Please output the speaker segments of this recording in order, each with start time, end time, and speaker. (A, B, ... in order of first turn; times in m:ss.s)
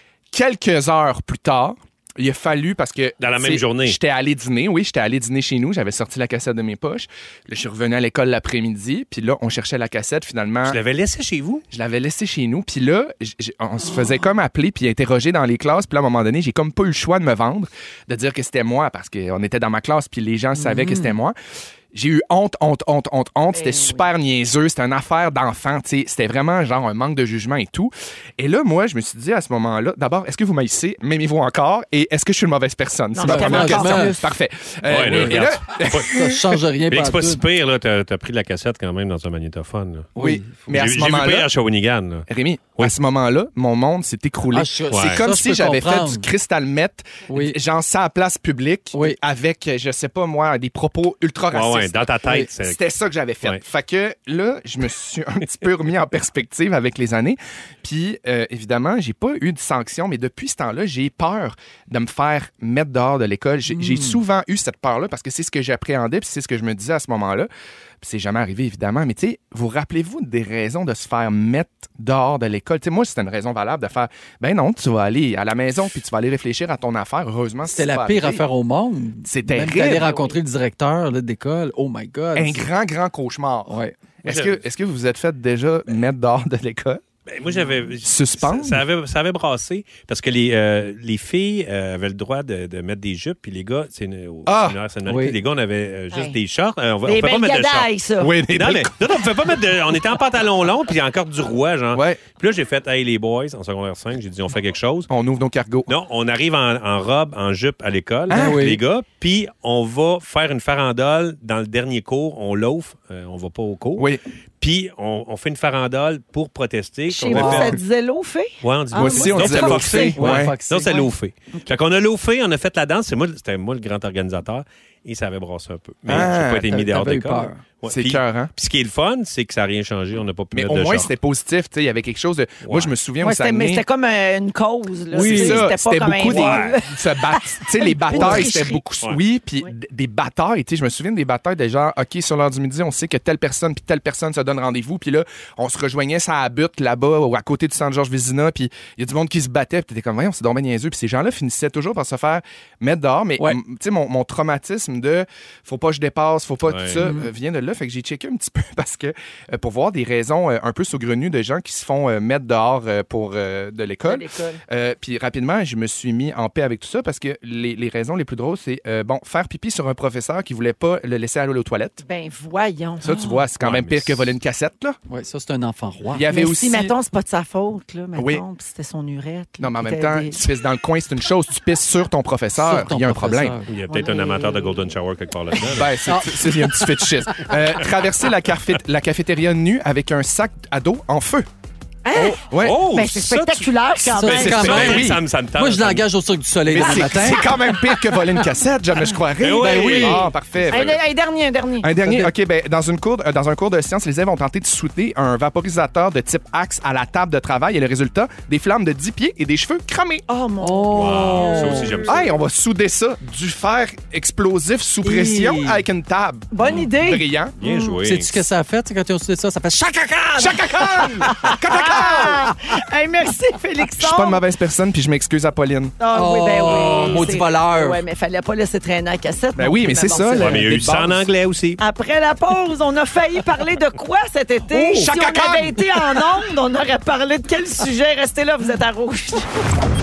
0:00.3-0:10.8 A
0:03.2-0:04.0 B
0:10.6-0:11.6 B
0:11.7-0:21.4 A
0:20.6-0:21.2 C
0:21.9-0:36.4 A
0:23.5-0:24.1 D
0:33.2-0:34.2 D
0:33.2-0:34.3 C
0:34.8-0:36.1 B
0:35.0-0:35.4 C
0:36.0-0:37.4 C
0:36.9-0:40.1 B
0:40.2-0:40.6 C
0:40.2-0:41.5 A
0:40.7-0:43.0 B
0:42.3-0:52.1 A
0:44.5-0:46.3 C
0:44.9-0:45.3 B
0:47.3-0:47.6 C
0:51.5-0:52.8 B
0:52.6-1:07.5 A
1:03.7-1:04.2 C
1:08.0-1:18.4 A
1:17.7-1:22.6 C
1:19.2-1:20.1 A
1:19.8-1:20.4 D
1:22.4-1:27.0 A
1:23.7-1:24.0 C
1:24.2-1:24.6 B
1:27.3-1:37.9 B
1:28.0-1:28.8 A
1:34.5-1:34.8 A
1:35.1-1:35.4 C
1:36.1-1:36.4 D
1:37.0-1:38.3 D
1:38.2-1:39.0 A
1:38.5-1:45.1 B
1:41.9-1:42.2 A
1:45.1-1:45.9 A
1:45.9-1:57.8 B
1:48.3-1:48.6 A
1:48.3-1:48.8 C
1:54.0-1:54.2 A
1:57.1-2:00.2 D
1:57.3-1:57.8 C
1:58.6-2:11.1 B
1:59.0-2:00.6 A
1:59.0-2:01.1 C
2:06.1-2:06.7 A
2:06.2-2:07.6 C
2:07.9-2:08.5 A
2:10.5-2:13.8 A
2:12.6-2:12.9 B
2:13.2-2:18.8 D
2:15.1-2:15.7 C
2:15.2-2:52.0 A
2:16.2-2:16.8 B
2:18.1-2:18.5 C
2:36.7-2:37.0 B
2:37.0-2:37.3 C
2:44.0-2:44.6 D
2:52.0-2:53.2 D
2:53.0-2:55.0 A
2:53.6-2:54.4 B
2:55.1-2:56.3 C
2:56.1-2:56.9 A
2:56.3-3:00.5 D
2:58.2-2:58.4 A
2:59.6-3:03.6 A
3:02.6-3:03.7 C
3:03.7-3:06.0 B
3:03.9-3:04.8 D
3:05.7-3:11.5 A
3:06.1-3:07.6 C
3:12.0-3:14.9 D
3:12.2-3:13.7 B
3:12.4-3:12.8 A
3:14.0-3:18.4 C
3:14.2-3:15.2 A
3:14.3-3:16.1 B
3:16.7-3:21.0 A
3:19.4-3:21.0 B
3:19.6-3:20.3 C
3:20.7-3:21.9 D
3:21.8-3:30.2 A
3:22.0-3:22.3 C
3:30.3-3:32.1 D
3:30.6-3:32.0 C
3:30.9-3:32.3 B
3:32.1-3:37.6 A
3:35.0-3:35.8 C
3:36.5-3:38.0 D
3:37.6-3:38.4 B
3:38.0-3:41.5 C
3:40.4-3:42.4 A
3:41.3-3:44.4 D
3:44.0-3:46.0 A
3:46.0-3:50.6 D
3:46.1-3:48.0 C
3:46.7-3:47.3 B
3:49.6-3:51.3 A
3:50.4-3:51.8 B
3:51.8-3:59.5 D
3:54.8-3:55.1 C
3:55.0-3:56.2 A